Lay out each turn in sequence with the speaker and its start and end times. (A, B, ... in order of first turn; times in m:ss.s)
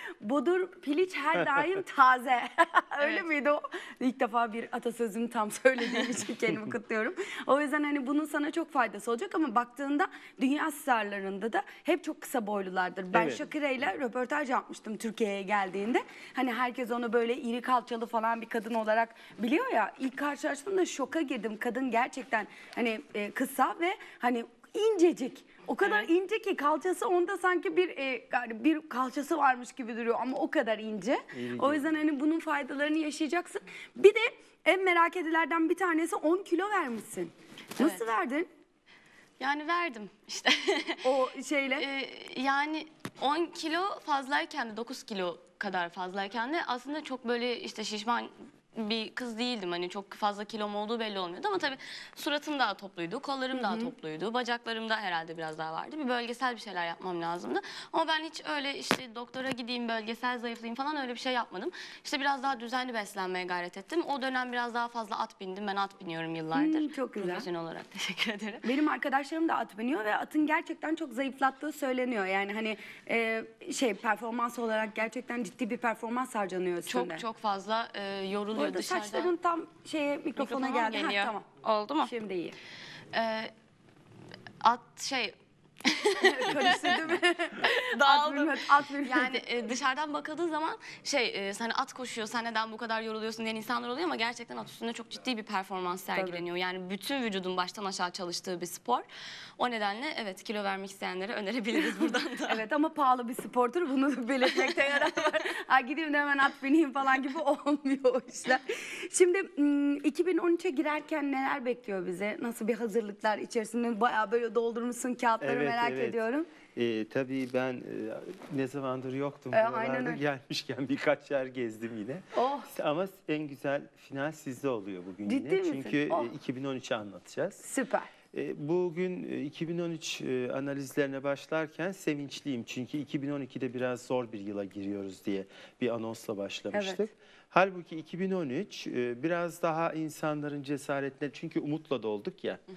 0:00.2-0:38.5 A
0:03.0-0:03.3 B
0:13.1-0:13.4 C
0:31.3-0:32.0 C
0:39.4-0:41.1 B
0:41.0-0:41.8 A
0:41.8-1:08.7 B
0:53.5-0:53.9 A
1:06.5-1:07.5 A
1:08.6-1:17.2 A
1:16.8-1:19.3 B
1:18.6-1:21.4 A
1:20.4-1:22.1 B
1:22.0-1:22.6 A
1:23.1-1:23.5 B
1:24.6-1:27.0 B
1:26.2-1:29.5 A
1:27.6-1:39.0 B
1:36.1-1:36.4 A
1:39.6-1:42.6 B
1:41.7-1:56.5 A
1:55.4-1:56.2 C
1:56.7-2:07.6 C
1:59.5-2:00.2 A
2:02.3-2:02.7 A
2:05.2-2:06.3 A
2:07.6-2:08.1 A
2:08.3-2:22.6 C
2:16.7-2:17.0 A